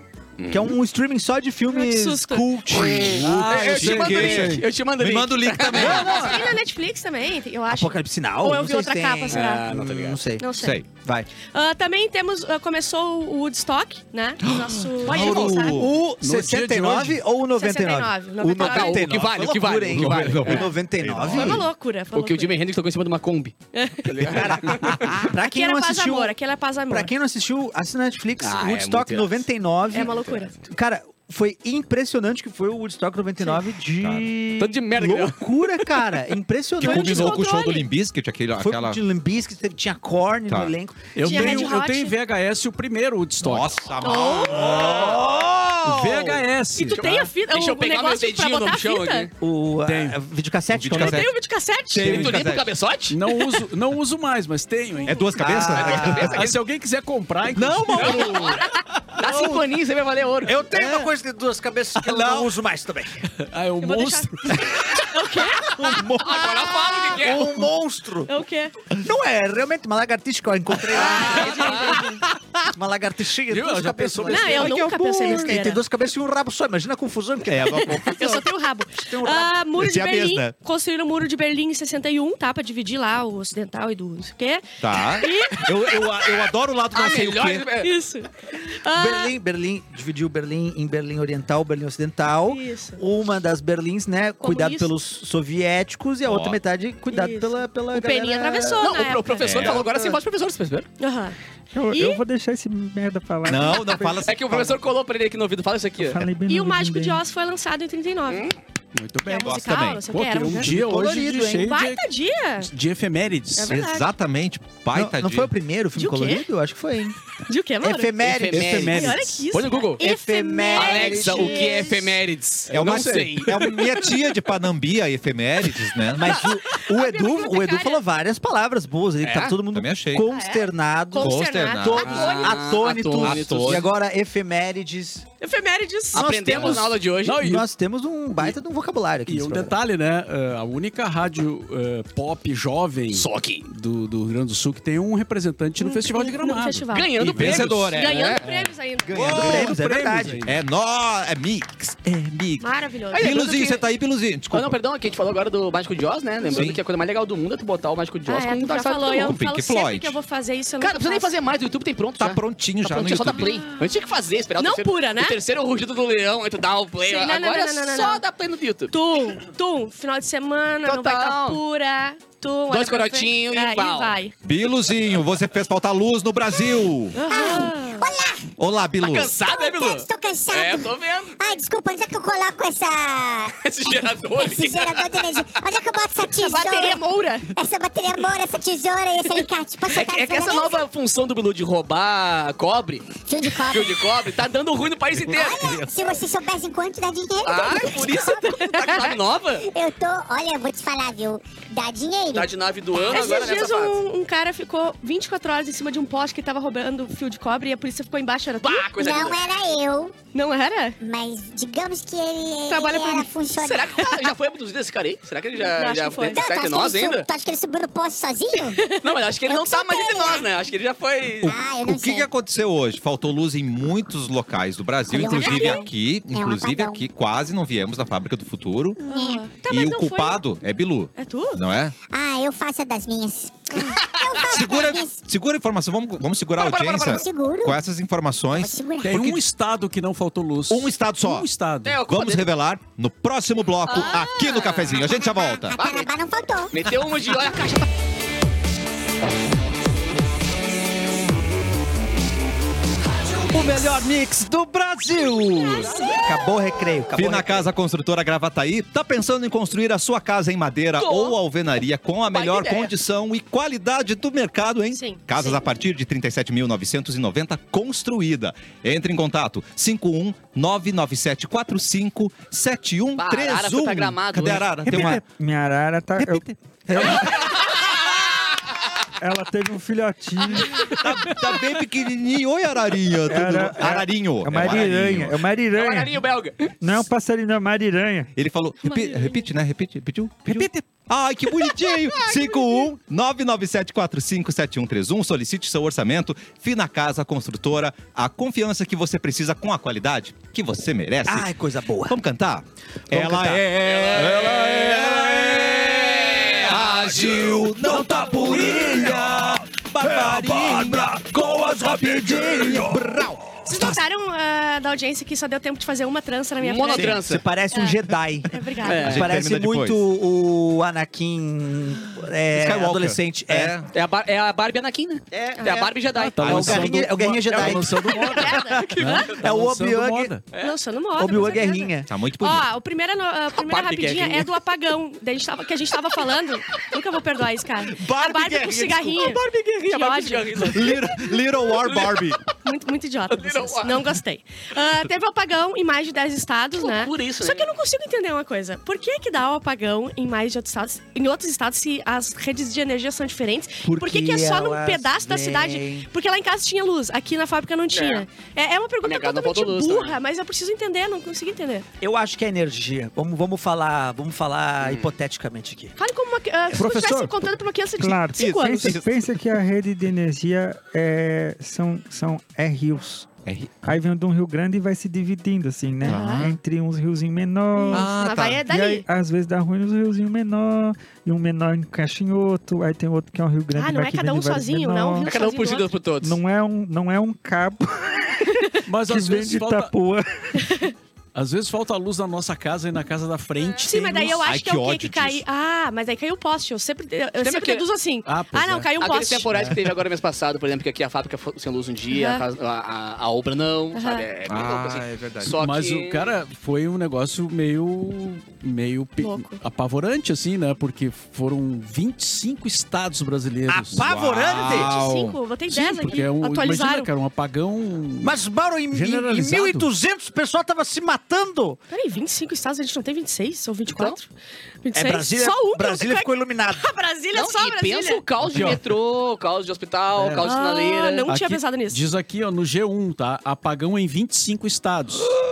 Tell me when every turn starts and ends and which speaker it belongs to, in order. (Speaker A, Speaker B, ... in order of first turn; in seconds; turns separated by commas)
Speaker A: 0.4-0.8, Speaker B: 0.5-3.6, Speaker C: 1.7-2.5, Speaker A: 2.7-6.4, Speaker D: 3.1-4.6, Speaker E: 3.5-6.3, Speaker B: 5.8-6.4, Speaker C: 5.8-9.7, Speaker B: 7.7-11.3, Speaker A: 9.3-10.2, Speaker C: 10.4-10.8, Speaker E: 10.6-10.9, Speaker C: 11.5-15.8, Speaker E: 14.5-16.0, Speaker B: 15.1-21.7, Speaker A: 15.1-15.6, Speaker D: 16.2-17.2, Speaker C: 17.6-19.1, Speaker A: 18.6-20.7, Speaker E: 19.9-21.7, Speaker C: 21.3-22.6, Speaker A: 22.1-23.6, Speaker C: 23.7-24.1, Speaker A: 24.1-25.1, Speaker B: 24.2-26.4, Speaker C: 25.4-27.1, Speaker B: 26.9-37.5, Speaker A: 28.4-29.4, Speaker C: 29.9-30.6, Speaker E: 34.0-34.3, Speaker A: 34.6-36.0, Speaker E: 36.8-39.0, Speaker C: 36.8-37.9, Speaker B: 38.6-41.7, Speaker D: 41.1-43.9, Speaker C: 41.2-42.1, Speaker E: 43.4-45.2, Speaker C: 44.0-44.9, Speaker B: 44.5-46.4, Speaker D: 45.8-47.3, Speaker C: 46.8-49.3, Speaker A: 47.0-49.3, Speaker B: 49.4-51.2, Speaker D: 49.8-50.2, Speaker E: 50.7-51.3, Speaker C: 51.0-52.3, Speaker E: 51.9-52.7, Speaker A: 52.0-53.2, Speaker D: 52.0-52.5, Speaker D: 53.1-55.2, Speaker C: 55.0-55.3, Speaker E: 55.0-56.5, Speaker B: 55.4-56.4, Speaker A: 55.7-56.5, Speaker D: 56.2-58.5, Speaker E: 57.6-58.6, Speaker A: 58.0-58.5, Speaker C: 58.0-58.8, Speaker A: 59.2-60.6, Speaker B: 59.2-59.6, Speaker B: 60.5-63.3, Speaker E: 60.7-61.1, Speaker E: 62.0-62.5, Speaker D: 63.4-64.6, Speaker C: 63.8-65.8, Speaker B: 65.7-68.3, Speaker A: 66.2-67.6, Speaker C: 68.3-68.7, Speaker B: 68.9-78.4, Speaker C: 70.9-72.2, Speaker A: 71.1-72.0, Speaker D: 73.5-74.8, Speaker C: 74.3-75.8, Speaker E: 77.5-78.5, Speaker C: 77.8-86.2, Speaker B: 79.0-79.5, Speaker E: 79.7-80.5, Speaker E: 84.8-87.7, Speaker A: 86.9-87.9, Speaker C: 87.8-89.3, Speaker B: 88.9-98.9, Speaker C: 92.5-93.0, Speaker C: 94.4-94.9, Speaker E: 96.2-96.6, Speaker C: 97.1-99.7, Speaker A: 98.8-100.9, Speaker E: 99.4-99.9, Speaker B: 99.7-100.2, Speaker C: 101.0-101.4, Speaker F: 101.7-104.2, Speaker C: 101.9-102.2, Speaker E: 103.5-104.8, Speaker A: 104.2-106.3, Speaker F: 106.0-107.2, Speaker C: 106.5-108.5, Speaker A: 108.3-108.5, Speaker D: 109.0-112.1, Speaker C: 109.3-110.7, Speaker E: 109.4-110.1, Speaker B: 110.6-111.7, Speaker C: 111.6-112.7, Speaker D: 112.6-113.8, Speaker C: 113.5-114.1, Speaker E: 113.7-115.5, Speaker B: 114.9-117.2, Speaker C: 116.0-116.5, Speaker C: 117.5-118.2, Speaker B: 117.8-119.2, Speaker A: 118.2-120.0, Speaker D: 118.5-119.5, Speaker C: 118.9-122.2, Speaker B: 120.0-122.0, Speaker A: 120.7-124.1, Speaker E: 122.7-126.4, Speaker D: 122.8-123.7, Speaker B: 126.1-135.3, Speaker C: 126.2-128.0, Speaker A: 129.2-129.6, Speaker E: 129.7-130.2, Speaker C: 130.3-132.6, Speaker E: 131.2-132.4, Speaker A: 132.0-133.9, Speaker E: 133.2-133.9, Speaker C: 135.4-136.3, Speaker A: 136.1-137.4, Speaker B: 136.1-139.8, Speaker D: 137.2-137.7, Speaker D: 139.3-147.9, Speaker A: 143.1-143.7, Speaker C: 145.8-149.4, Speaker A: 146.9-148.5, Speaker E: 147.3-148.4, Speaker B: 149.1-150.4, Speaker E: 149.1-149.8, Speaker D: 149.2-150.6, Speaker E: 150.4-154.8, Speaker C: 152.6-153.4, Speaker A: 153.1-153.9, Speaker A: 154.5-159.4, Speaker E: 156.5-156.8, Speaker C: 158.3-161.3, Speaker E: 159.2-160.2, Speaker A: 160.8-168.9, Speaker E: 162.2-163.6, Speaker C: 164.6-165.4, Speaker C: 167.1-168.2, Speaker C: 168.9-174.3, Speaker A: 170.8-171.6, Speaker A: 172.7-174.2, Speaker E: 174.4-177.2, Speaker C: 177.1-178.1, Speaker G: 177.3-178.5, Speaker E: 178.6-179.4, Speaker A: 179.0-181.5, Speaker G: 179.4-183.6, Speaker A: 183.6-185.4, Speaker G: 184.3-187.0, Speaker C: 186.4-187.5, Speaker G: 187.6-190.8, Speaker A: 189.9-195.8, Speaker G: 193.3-194.1, Speaker G: 195.3-199.1, Speaker A: 197.4-199.7, Speaker C: 198.1-199.2, Speaker G: 199.6-202.5, Speaker A: 202.3-204.0, Speaker C: 203.0-209.0, Speaker A: 208.6-209.4, Speaker G: 209.0-210.1, Speaker C: 210.3-211.0, Speaker G: 211.0-214.0, Speaker C: 212.7-213.4, Speaker A: 213.6-217.3, Speaker C: 215.8-216.4, Speaker G: 216.3-218.9, Speaker C: 218.6-220.4, Speaker A: 218.9-221.6, Speaker G: 219.6-220.4, Speaker G: 221.4-222.3, Speaker E: 221.4-229.0, Speaker G: 225.1-227.1, Speaker C: 225.2-225.9, Speaker G: 229.0-229.5, Speaker C: 229.1-230.4, Speaker E: 229.6-232.0, Speaker C: 231.2-231.6, Speaker G: 232.1-235.2, Speaker E: 234.4-239.4, Speaker A: 236.6-237.2, Speaker G: 236.8-237.8, Speaker G: 238.5-239.3, Speaker D: 239.0-242.0, Speaker E: 240.7-241.5, Speaker A: 241.8-242.5, Speaker E: 242.1-245.8, Speaker A: 243.9-245.1, Speaker G: 245.3-246.8, Speaker A: 245.8-246.1, Speaker A: 246.7-247.9, Speaker B: 253.5-257.7, Speaker E: 253.5-254.0, Speaker E: 255.0-255.7, Speaker E: 257.1-275.2, Speaker A: 261.0-261.4, Speaker A: 262.3-262.9, Speaker C: 264.9-265.6, Speaker A: 273.2-274.9, Speaker F: 274.8-277.1, Speaker B: 274.9-275.2, Speaker B: 276.9-277.2, Speaker A: 277.0-277.5, Speaker F: 279.2-281.5, Speaker E: 280.8-285.4, Speaker F: 283.2-286.2, Speaker A: 285.7-287.0, Speaker F: 286.8-288.3, Speaker E: 288.4-301.5, Speaker C: 288.8-289.5, Speaker B: 301.3-302.2, Speaker E: 302.1-314.0, Speaker B: 303.1-303.7, Speaker A: 303.8-307.0, Speaker B: 304.5-305.2, Speaker B: 307.8-313.0, Speaker C: 313.6-318.0, Speaker A: 316.6-317.4, Speaker B: 316.9-323.7, Speaker C: 318.5-319.2, Speaker A: 318.8-319.3, Speaker E: 319.0-320.1, Speaker E: 322.5-323.9, Speaker A: 323.9-326.9, Speaker B: 325.3-330.4, Speaker C: 325.6-325.9, Speaker D: 326.1-330.4, Speaker E: 326.4-326.9, Speaker C: 328.1-329.3, Speaker C: 330.6-340.8, Speaker B: 331.2-332.1, Speaker E: 332.1-332.7, Speaker A: 333.6-334.5, Speaker B: 338.1-338.9, Speaker A: 339.1-342.4, Speaker E: 340.7-342.4, Speaker C: 342.6-361.9, Speaker A: 343.3-344.2, Speaker A: 346.8-347.8, Speaker B: 353.8-356.1, Speaker A: 357.9-358.2, Speaker A: 359.0-360.2, Speaker B: 362.0-365.9, Speaker A: 364.8-365.1, Speaker C: 366.0-369.0, Speaker B: 366.8-367.3, Speaker F: 368.0-373.3, Speaker E: 368.4-369.2, Speaker E: 373.5-373.7, Speaker F: 373.8-385.3, Speaker E: 376.0-376.6, Speaker C: 376.0-376.5, Speaker C: 377.8-379.1, Speaker E: 377.9-378.6, Speaker C: 383.7-385.9, Speaker A: 385.2-386.4, Speaker F: 386.2-390.9, Speaker D: 388.9-389.9, Speaker C: 390.6-390.9, Speaker D: 391.4-394.4, Speaker C: 393.8-399.6, Speaker E: 394.4-395.4, Speaker A: 397.4-397.9, Speaker D: 398.2-398.9, Speaker A: 399.0-406.4, Speaker C: 402.1-402.4, Speaker C: 403.9-404.2, Speaker E: 404.5-405.6, Speaker D: 405.5-414.1, Speaker C: 409.2-409.6, Speaker B: 413.7-414.9, Speaker E: 413.9-415.4, Speaker C: 414.6-417.1, Speaker D: 415.7-418.4, Speaker B: 418.2-421.8, Speaker D: 418.9-419.9, Speaker C: 421.9-424.3, Speaker A: 423.9-424.2, Speaker C: 424.8-428.2, Speaker B: 424.9-426.9, Speaker A: 427.3-431.3, Speaker D: 428.4-428.9, Speaker D: 430.2-430.5, Speaker C: 430.4-432.0, Speaker D: 431.3-435.4